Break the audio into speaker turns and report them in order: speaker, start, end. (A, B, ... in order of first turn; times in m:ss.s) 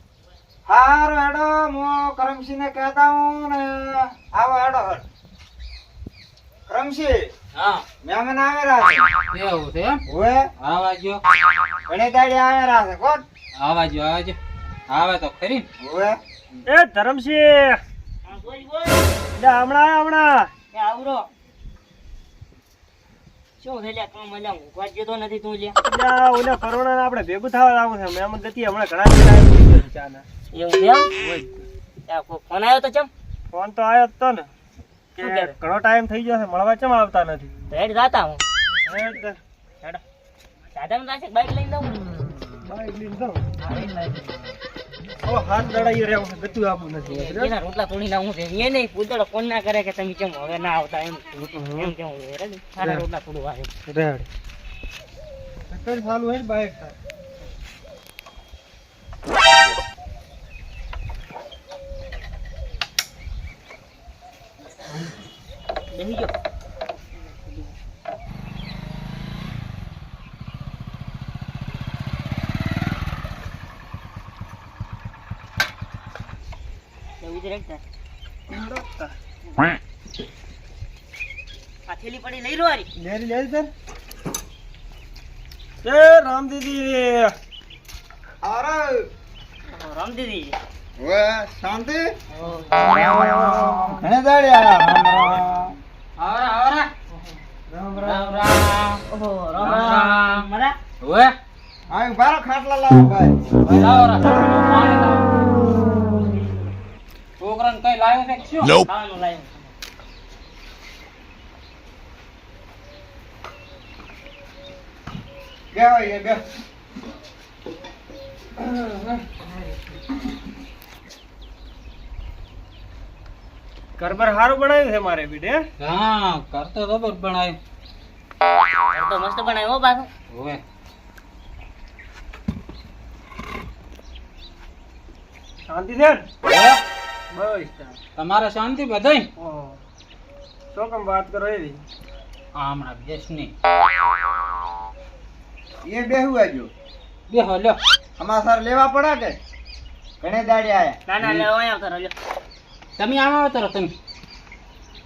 0:00.7-0:05.0 A
0:06.7-0:07.3 A
0:07.5-0:07.8 B
0:08.0-0:09.1 A
0:09.3-0:10.0 B
0:10.1-0:10.5 A
0:10.6-0:11.2 B
0:11.9-0:13.2 A
0:13.6-0:14.4 B
0:14.9-0:15.6 B
0:15.8-0:16.6 A
0:16.6-0:17.8 C
0:18.2-0:19.2 D
0:19.3-0:20.5 C
0:20.7-0:21.3 D
0:23.6-0:25.8 D
0:25.8-0:30.2 C
0:30.5-0:31.1 D
0:31.2-0:31.7 C
0:32.1-0:33.1 D
0:33.5-0:34.5 C
0:35.2-0:35.5 D
0:35.2-0:37.5 C
0:37.7-0:38.4 D
0:38.8-0:39.4 C
0:40.7-0:42.1 D
0:42.6-0:43.5 C
0:43.6-0:44.4 D
0:45.2-0:47.5 C
0:47.0-0:53.7 D
0:51.5-0:51.9 C
0:53.9-0:54.3 C
0:55.7-0:57.0 C
1:05.9-1:06.3 D
1:17.2-1:17.8 D
1:18.5-1:19.1 C
1:21.9-1:22.9 D
1:23.0-1:23.7 C
1:25.8-1:27.3 C
1:28.4-1:29.1 A
1:29.7-1:30.6 D
1:31.0-1:32.2 A
1:32.4-1:32.7 D
1:32.7-1:34.0 C
1:32.8-1:35.8 A
1:36.2-1:36.9 B
1:37.7-1:38.5 C
1:38.0-1:39.0 B
1:39.1-1:40.8 D
1:39.6-1:40.5 B
1:41.0-1:41.3 B
1:41.9-1:44.3 A
1:43.7-1:45.3 B
1:47.4-1:48.8 B
1:48.8-1:49.7 D
1:55.7-1:56.4 A
2:04.0-2:05.7 C
2:05.8-2:07.6 B
2:08.9-2:10.1 D
2:10.3-2:10.6 B
2:15.7-2:16.2 C
2:16.4-2:16.8 B
2:17.3-2:18.0 C
2:18.2-2:19.3 B
2:19.4-2:19.8 C
2:20.7-2:21.8 C
2:22.6-2:23.5 B
2:25.8-2:26.7 A
2:27.3-2:27.8 B
2:28.2-2:29.4 A
2:30.2-2:31.2 A
2:31.1-2:32.1 D
2:33.0-2:33.9 B